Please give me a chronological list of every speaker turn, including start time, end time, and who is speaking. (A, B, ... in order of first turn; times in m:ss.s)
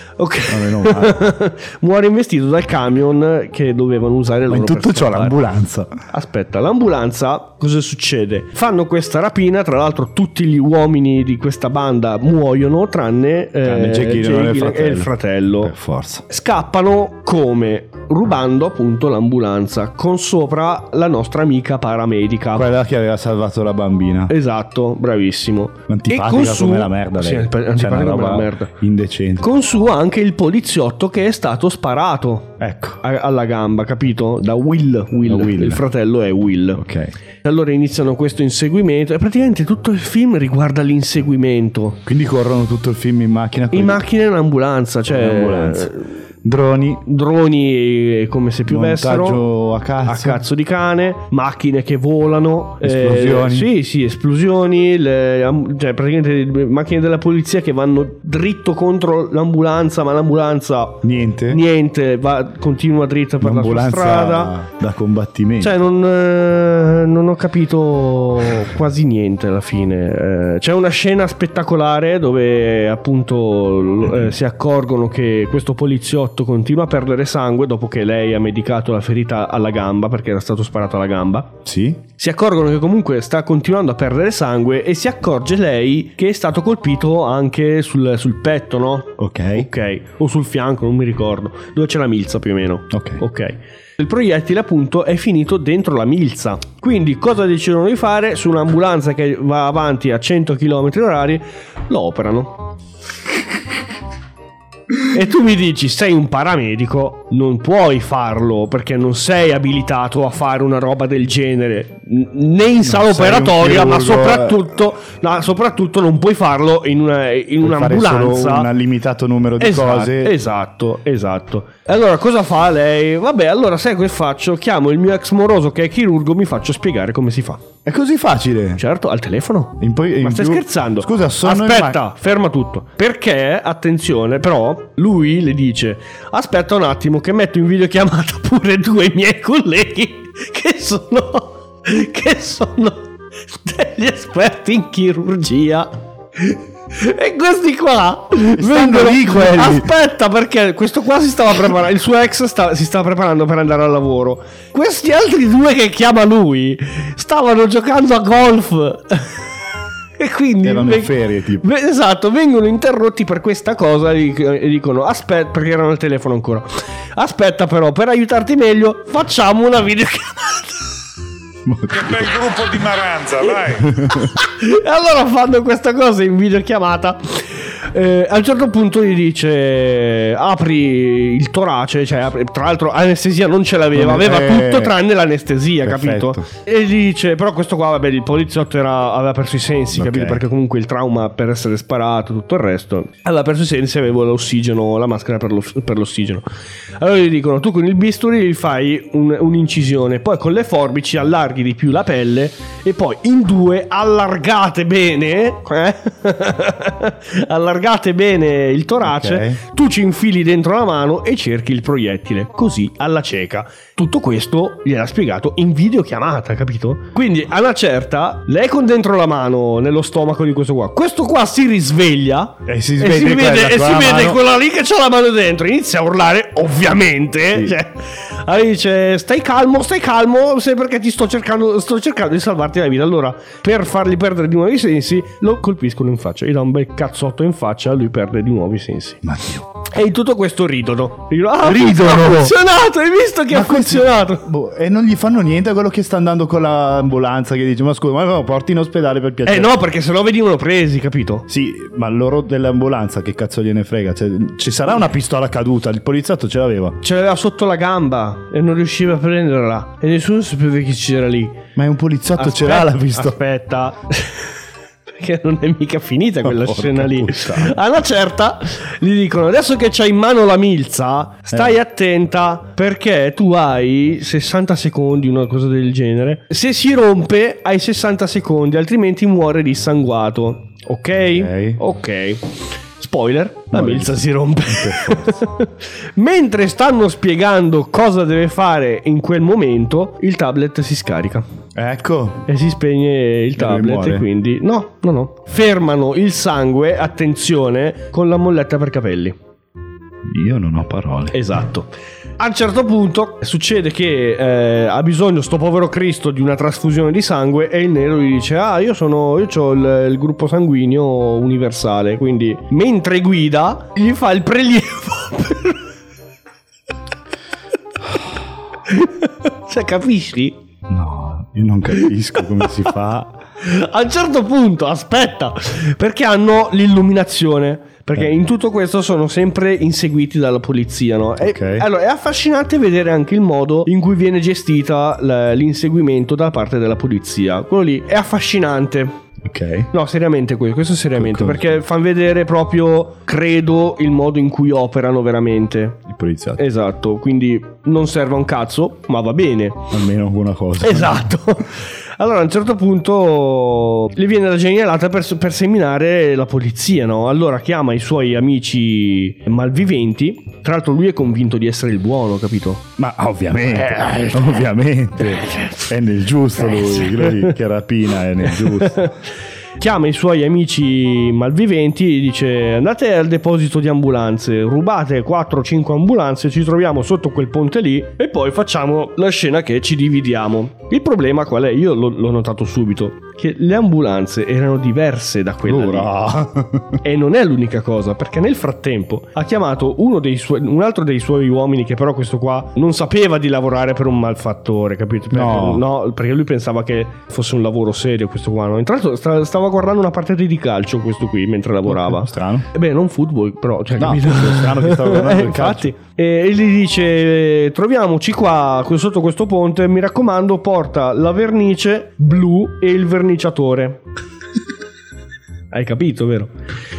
0:00.2-0:05.4 A
0:00.5-0:01.2 B
0:04.5-0:05.9 B
0:06.1-0:15.7 A
0:13.6-0:16.2 B
0:16.3-0:22.7 A
0:22.6-0:24.3 B
0:24.3-0:28.7 A
0:25.9-0:29.5 B
0:29.4-0:36.8 A
0:32.6-0:33.0 B
0:35.3-0:35.8 B
0:36.8-0:37.1 B
0:37.4-0:42.0 A
0:42.1-0:44.0 B
0:43.7-0:46.1 A
0:45.1-0:45.9 B
0:46.4-0:47.0 B
0:47.1-0:49.4 A
0:48.7-0:50.4 B
0:50.0-1:04.6 A
0:52.8-0:53.7 B
1:01.0-1:01.6 B
1:03.4-1:05.7 B
1:05.6-1:21.6 A
1:21.6-1:22.0 B
1:22.2-1:42.7 A
1:29.2-1:29.7 B
1:32.9-1:33.2 B
1:45.1-1:58.7 A
1:52.8-1:54.7 B
1:57.6-2:00.4 B
1:59.6-2:07.6 A
2:07.8-2:08.8 B
2:08.8-2:39.3 A
2:09.8-2:12.0 B
2:28.6-2:29.9 B
2:40.2-2:50.8 A
2:40.6-2:41.7 B
2:51.7-2:52.3 B
2:51.9-2:53.9 C
2:53.8-2:54.3 B
2:54.4-3:16.4 A
3:03.9-3:05.0 B
3:05.8-3:06.5 B
3:09.9-3:10.4 B
3:17.0-3:59.2 A
3:29.0-3:29.6 B
3:42.7-3:44.4 B
3:59.2-3:59.8 B
3:59.9-4:04.5 A
4:01.6-4:02.6 B
4:03.5-4:09.7 B
4:09.4-4:11.5 A
4:11.5-4:17.0 B
4:17.0-4:21.6 A
4:21.8-4:23.4 B
4:22.4-4:24.5 A
4:25.1-4:51.4 A
4:26.4-4:27.8 B
4:41.3-4:41.8 B
4:43.7-4:45.3 B
4:51.8-4:52.5 B
4:52.5-4:59.4 A
4:53.6-4:54.3 B
5:00.2-5:01.4 B
5:01.3-5:15.8 A
5:18.9-5:20.6 A
5:20.9-5:23.4 B
5:23.6-5:39.1 A
5:31.4-5:31.9 B
5:39.4-5:39.9 B
5:39.9-5:46.0 A
5:41.2-5:41.8 B
5:46.1-5:46.6 B
5:46.6-5:49.9 A
5:49.9-5:51.3 B
5:50.8-6:02.8 A
6:03.0-6:09.1 B
6:03.7-6:04.5 A
6:05.3-6:05.8 A
6:06.7-6:07.5 A
6:08.5-6:09.2 A
6:09.8-6:26.1 A
6:25.6-6:27.0 B
6:27.0-6:54.0 A
6:35.3-6:35.8 B
6:41.9-6:42.7 B
6:44.0-6:45.9 B
6:55.7-6:56.5 A